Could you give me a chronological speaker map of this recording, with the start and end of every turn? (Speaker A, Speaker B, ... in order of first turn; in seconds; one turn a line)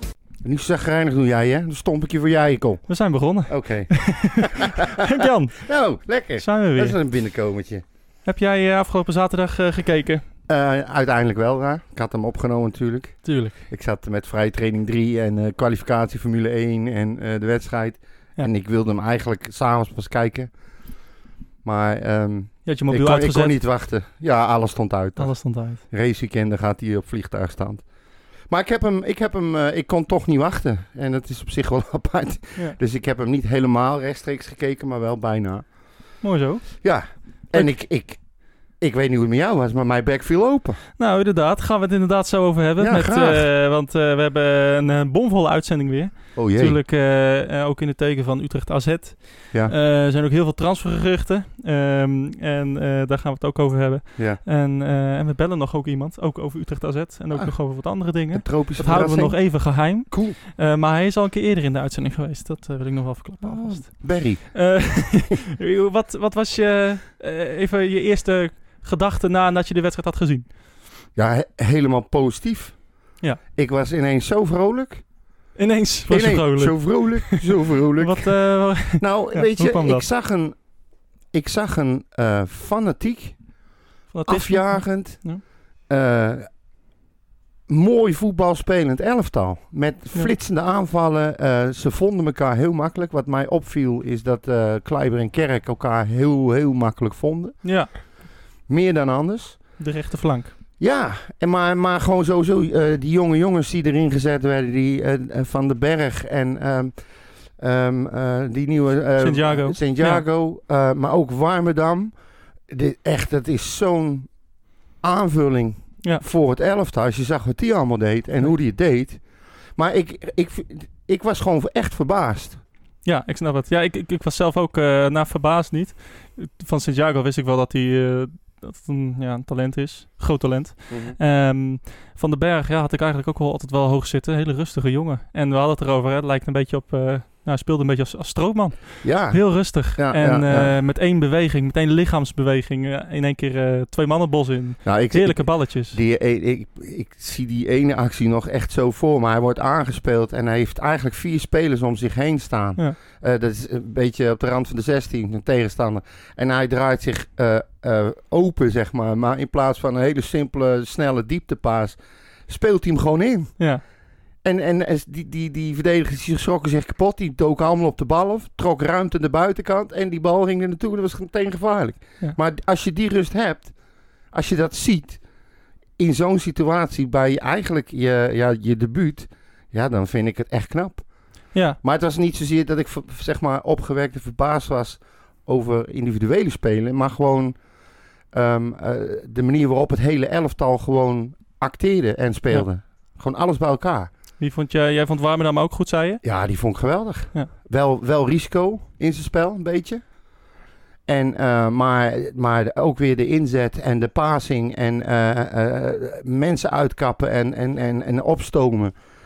Speaker A: 0.4-2.9
Speaker B: 2.9-5.5
Speaker A: 3.5-7.8
Speaker B: 6.4-7.0
Speaker B: 8.2-10.2
Speaker A: 10.5-20.5
Speaker B: 13.2-13.5
Speaker A: 21.6-27.8
Speaker B: 22.6-23.6
Speaker B: 25.2-25.8
Speaker A: 28.5-35.6
Speaker B: 36.2-36.8
Speaker A: 36.8-38.2
Speaker A: 38.8-40.8
Speaker B: 41.0-70.5
Speaker A: 42.8-43.5
Speaker A: 46.4-46.8
Speaker A: 57.3-60.4
Speaker A: 63.4-65.1
Speaker A: 71.1-72.8
Speaker A: 73.5-75.0
Speaker B: 75.6-77.4
Speaker A: 76.1-80.6
Speaker B: 78.0-80.0
Speaker A: 81.3-83.4
Speaker B: 84.1-85.4
Speaker A: 84.2-86.5
Speaker A: 87.7-98.0
Speaker B: 97.6-97.9
Speaker A: 98.7-99.7
Speaker B: 99.8-100.5
Speaker A: 100.8-107.0
Speaker A: 107.6-112.2
Speaker B: 109.2-110.2
Speaker A: 112.7-114.3
Speaker A: 115.0-119.2
Speaker A: 119.8-122.6
Speaker B: 123.0-145.9
Speaker A: 130.9-131.2
Speaker A: 139.0-140.8
Speaker A: 144.8-163.6
Speaker A: 164.4-173.7
Speaker A: 174.3-175.2
Speaker A: 176.0-181.1
Speaker A: 181.8-187.6
Speaker A: 188.3-194.1
Speaker B: 194.4-196.2
Speaker A: 196.2-200.0
Speaker A: 201.1-208.9